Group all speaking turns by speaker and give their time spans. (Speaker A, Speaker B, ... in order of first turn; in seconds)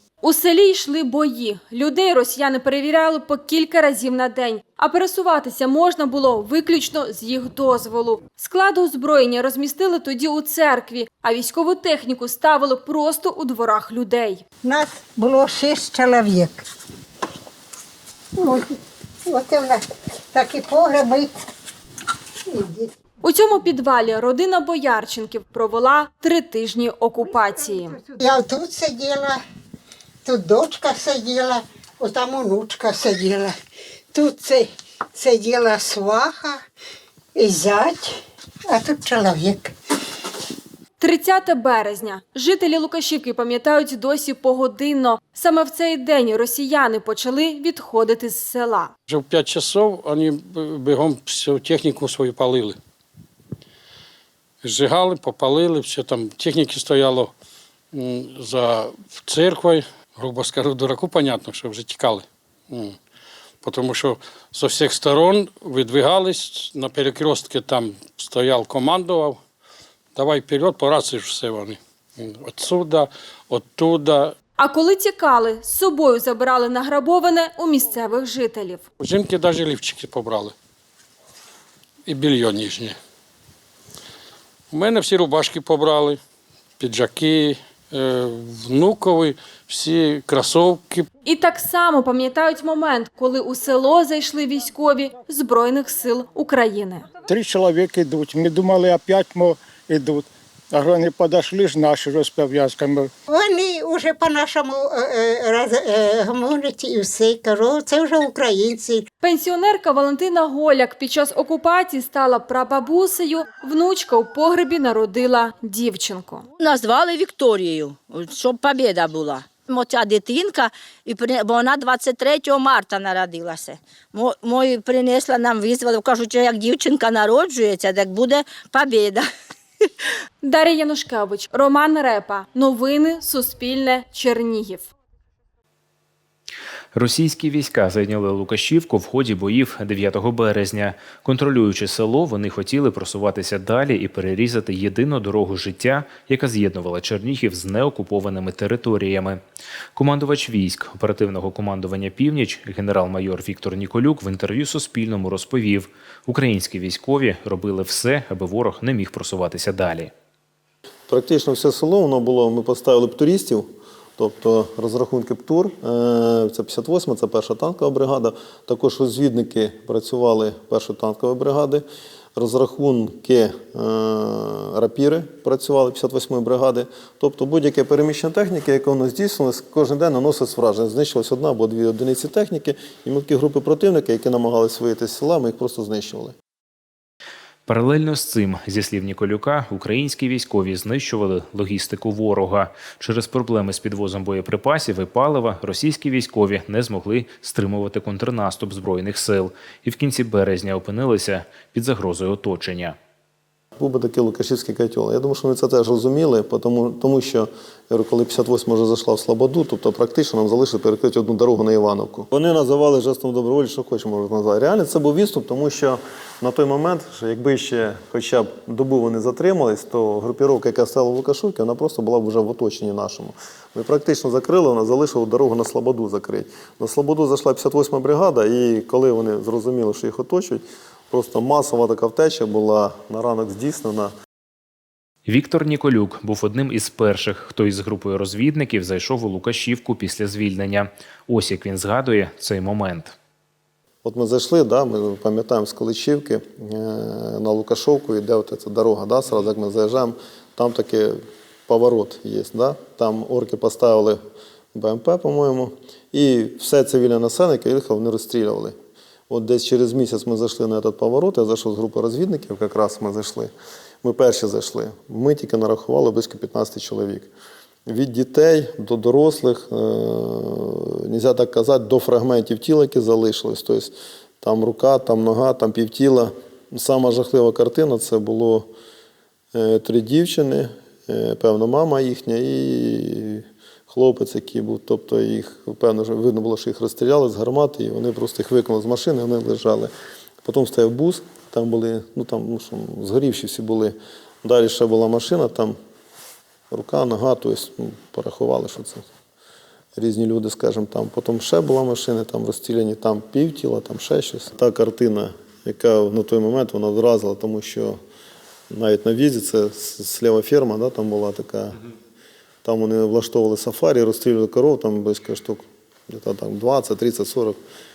Speaker A: 0.2-14.4, 23.2-28.0, 41.0-48.9, 74.6-78.8, 91.2-97.1, 109.2-116.5, 130.4-134.9
Speaker B: 14.6-16.6, 18.4-18.7, 19.3-21.3, 22.5-22.9, 28.1-29.4, 30.2-33.6, 34.1-36.6, 37.4-39.7, 103.3-109.1
Speaker C: 49.1-52.8, 54.6-57.3, 57.9-63.0, 63.6-69.4, 70.2-74.3, 79.0-80.5, 82.1-83.0, 84.7-86.2, 86.8-91.1
Speaker D: 97.3-103.1
Speaker E: 116.6-129.3
Speaker F: 136.9-149.4, 149.9-160.1, 187.7-203.0, 235.3-243.1
Speaker G: 161.1-171.8, 172.4-186.3, 203.8-234.1, 244.0-251.2, 251.7-254.2, 254.7-258.8, 259.3-263.5, 264.0-267.3, 267.9-278.7, 279.5-289.9, 290.4-295.8, 296.7-299.1, 300.0-308.0, 308.7-311.8, 312.6-317.6